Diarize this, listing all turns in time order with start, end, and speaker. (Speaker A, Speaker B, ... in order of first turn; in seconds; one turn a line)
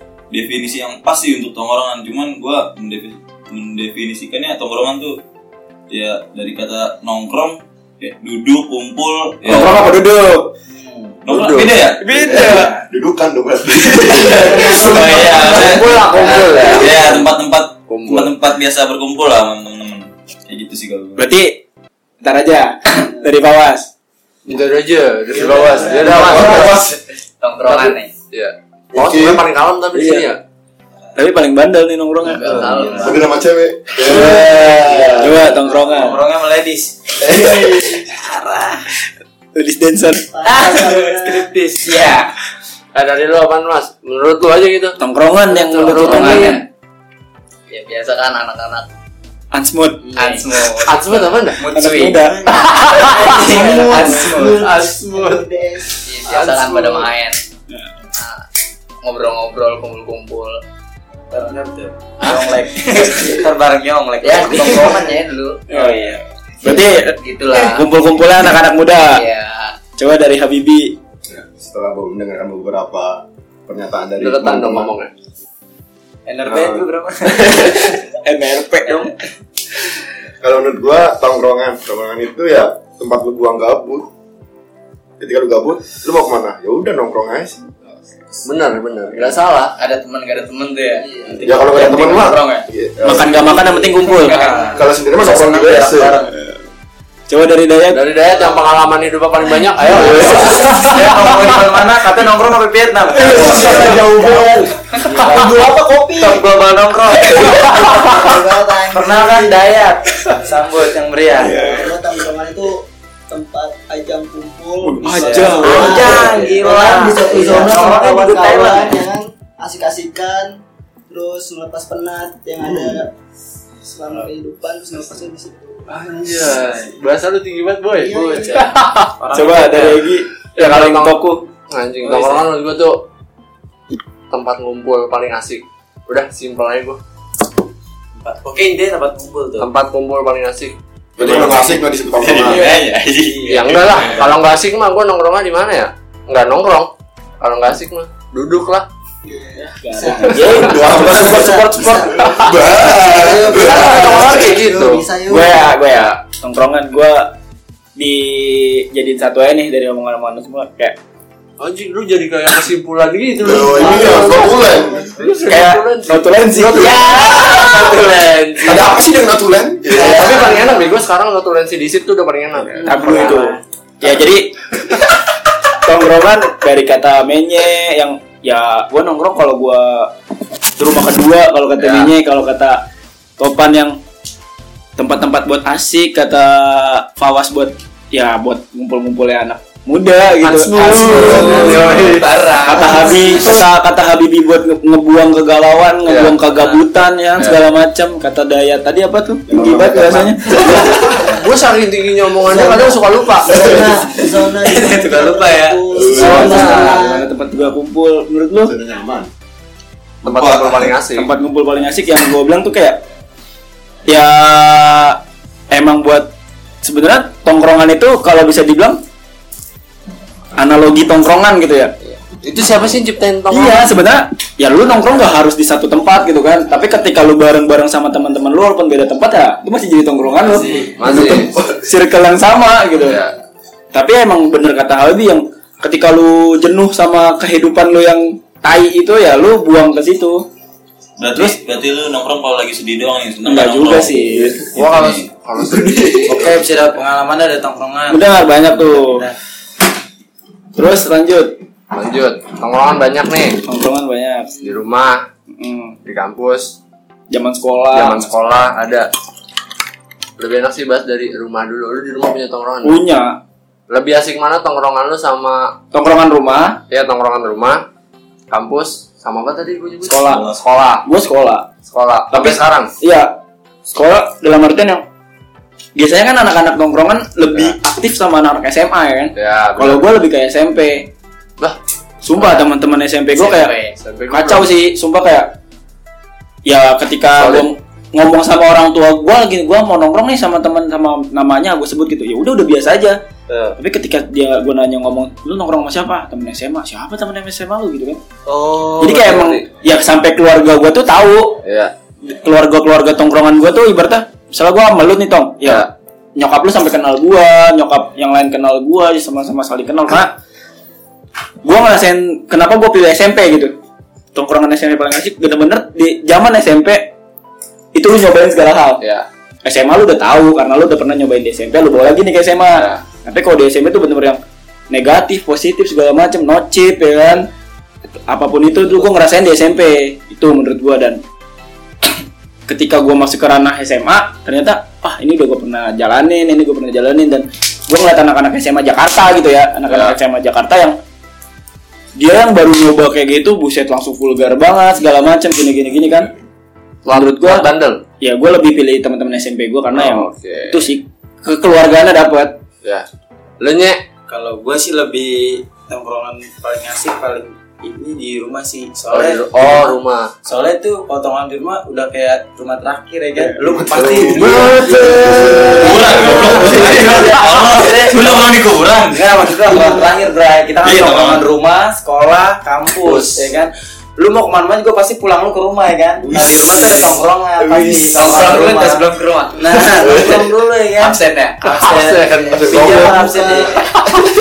Speaker A: 0.3-5.2
Speaker A: 5.9-9.8
Speaker B: 9.5-10.5
Speaker C: 10.8-11.2
Speaker A: 11.2-12.6
Speaker D: 11.3-11.8
Speaker B: 12.0-12.8
Speaker E: 12.3-15.4
Speaker A: 14.0-21.2
Speaker F: 14.3-15.6
Speaker D: 15.3-17.3
Speaker D: 17.9-18.3
Speaker B: 21.2-21.6
Speaker B: 22.2-23.9
Speaker D: 24.5-27.0
Speaker C: 25.4-26.2
Speaker F: 25.4-25.9
Speaker E: 25.9-27.0
Speaker G: 27.4-28.1
Speaker D: 27.6-30.4
Speaker E: 28.9-29.4
Speaker B: 30.0-30.2
Speaker B: 31.2-32.8
Speaker G: 32.2-33.2
Speaker C: 32.5-33.0
Speaker D: 32.5-33.1
Speaker E: 33.0-35.3
Speaker D: 34.2-35.5
Speaker B: 35.2-36.2
Speaker C: 35.8-37.0
Speaker E: 37.2-38.0
Speaker B: 39.5-41.1
Speaker F: 40.3-41.5
Speaker C: 40.5-42.1
Speaker G: 41.9-42.3
Speaker D: 42.9-46.6
Speaker B: 45.0-46.6
Speaker G: 46.0-46.5
Speaker G: 47.7-48.9
Speaker B: 49.5-50.1
Speaker D: 50.1-51.6
Speaker G: 50.2-53.1
Speaker B: 51.7-53.1
Speaker C: 52.0-54.6
Speaker F: 52.9-56.0
Speaker G: 53.8-54.4
Speaker D: 54.5-55.5
Speaker G: 56.0-57.4
Speaker D: 56.2-57.1
Speaker G: 58.1-58.4
Speaker G: 59.0-60.6
Speaker C: 61.3-65.1
Speaker G: 64.2-65.9
Speaker B: 65.7-69.2
Speaker C: 65.7-66.2
Speaker G: 66.7-67.9
Speaker G: 69.1-69.8
Speaker B: 70.0-71.0
Speaker E: 71.3-75.0
Speaker D: 74.2-75.1
Speaker C: 76.3-78.1
Speaker E: 76.5-78.0
Speaker B: 78.2-79.1
Speaker C: 78.9-79.2
Speaker E: 80.4-84.1
Speaker E: 85.2-87.7
Speaker D: 88.4-89.8
Speaker G: 89.8-92.7
Speaker E: 91.4-94.0
Speaker B: 93.0-94.4
Speaker C: 94.2-96.3
Speaker G: 94.3-94.8
Speaker E: 94.8-96.2
Speaker B: 97.3-98.0
Speaker D: 97.9-100.8
Speaker C: 99.8-107.7
Speaker B: 100.2-100.9
Speaker B: 103.2-104.7
Speaker F: 103.3-106.5
Speaker F: 107.3-110.4
Speaker B: 107.3-107.6
Speaker C: 108.9-111.6
Speaker F: 111.4-123.1
Speaker B: 111.4-111.9
Speaker B: 114.8-116.5
Speaker C: 115.1-119.0
Speaker F: 123.8-126.6
Speaker D: 125.9-129.1
Speaker F: 128.0-128.7
Speaker C: 128.4-130.0
Speaker B: 129.3-131.5
Speaker D: 130.6-133.1
Speaker C: 132.0-132.5
Speaker D: 134.3-137.0
Speaker C: 138.2-139.7
Speaker D: 139.6-140.8
Speaker E: 141.2-142.7
Speaker A: 141.2-144.1
Speaker C: 142.5-144.2
Speaker D: 143.5-148.9
Speaker F: 149.2-155.8
Speaker B: 149.6-152.3
Speaker D: 150.2-150.8
Speaker E: 150.6-154.5
Speaker D: 153.4-155.1
Speaker B: 153.6-154.5
Speaker B: 155.3-157.3
Speaker B: 158.0-161.0
Speaker D: 161.6-164.6
Speaker E: 163.4-165.1
Speaker F: 163.6-165.2
Speaker D: 165.2-169.0
Speaker B: 165.5-167.6
Speaker E: 167.5-167.8
Speaker E: 168.7-170.3
Speaker D: 169.9-173.4
Speaker C: 170.1-170.9
Speaker B: 172.7-174.5
Speaker C: 172.8-173.5
Speaker B: 175.8-180.1
Speaker B: 180.8-182.8
Speaker D: 181.8-182.1
Speaker B: 183.4-184.0
Speaker B: 185.0-192.1
Speaker D: 190.4-193.6
Speaker C: 191.0-192.1
Speaker G: 191.4-193.3
Speaker B: 192.6-201.2
Speaker D: 196.1-196.4
Speaker C: 196.5-196.8
Speaker E: 199.5-201.2
Speaker D: 201.2-203.8
Speaker F: 202.4-207.3
Speaker E: 203.6-203.9
Speaker C: 204.6-205.8
Speaker E: 205.9-206.7
Speaker D: 206.1-207.0
Speaker B: 206.2-208.7
Speaker E: 208.6-209.3
Speaker D: 210.2-211.3
Speaker A: 210.3-210.8
Speaker B: 211.2-213.0
Speaker B: 214.1-216.3
Speaker B: 216.8-219.0
Speaker B: 220.6-221.9
Speaker D: 222.3-223.9
Speaker B: 223.5-233.2
Speaker D: 224.8-225.3
Speaker D: 230.4-231.6
Speaker D: 233.0-233.3
Speaker B: 233.9-240.5
Speaker A: 241.2-245.3
Speaker B: 243.5-244.6
Speaker E: 244.3-244.8
Speaker D: 244.7-246.5
Speaker E: 245.6-246.4
Speaker C: 246.3-248.2
Speaker B: 248.1-249.2
Speaker C: 248.8-249.4
Speaker B: 250.8-251.6
Speaker D: 251.9-253.6
Speaker B: 253.7-254.5
Speaker D: 254.6-255.2
Speaker B: 255.6-256.0
Speaker D: 256.1-256.8
Speaker B: 257.3-258.5
Speaker D: 257.9-259.1
Speaker D: 260.4-263.0
Speaker B: 262.8-263.4
Speaker D: 263.9-265.7
Speaker B: 265.9-266.8
Speaker D: 266.9-267.9
Speaker D: 268.5-271.1
Speaker B: 270.1-270.4
Speaker A: 270.3-270.6
Speaker B: 271.0-271.7
Speaker D: 271.8-272.9
Speaker B: 272.3-273.4
Speaker B: 273.9-275.1
Speaker B: 276.0-281.1
Speaker D: 279.4-280.0
Speaker B: 282.2-283.8
Speaker G: 283.4-284.0
Speaker D: 283.9-284.7
Speaker B: 284.3-285.5
Speaker B: 286.7-293.2
Speaker D: 287.4-287.7
Speaker D: 293.5-293.8
Speaker B: 293.8-298.2
Speaker D: 298.5-299.7
Speaker B: 299.0-301.6
Speaker D: 301.6-301.9
Speaker B: 302.2-310.4
Speaker D: 305.6-305.9
Speaker B: 311.6-313.8
Speaker B: 314.4-317.1
Speaker B: 317.9-319.0
Speaker D: 319.0-319.3
Speaker B: 319.6-327.5
Speaker D: 322.7-323.0
Speaker B: 328.3-331.2
Speaker B: 332.7-341.0
Speaker D: 339.9-340.2
Speaker B: 342.2-346.3
Speaker D: 347.1-348.0
Speaker B: 347.1-347.6
Speaker B: 348.2-352.6
Speaker D: 349.9-350.9
Speaker D: 353.6-354.0
Speaker C: 354.3-364.9
Speaker D: 359.1-360.3
Speaker E: 363.6-365.8
Speaker D: 363.9-366.5
Speaker A: 365.8-369.6
Speaker C: 365.8-368.5
Speaker C: 369.1-383.9
Speaker A: 370.8-371.5
Speaker D: 373.0-373.5
Speaker D: 376.4-377.2
Speaker E: 377.7-378.1
Speaker G: 378.1-379.8
Speaker D: 378.1-378.6
Speaker D: 379.7-380.6
Speaker G: 381.0-381.6
Speaker D: 381.6-383.1
Speaker F: 382.4-383.9
Speaker E: 382.6-383.1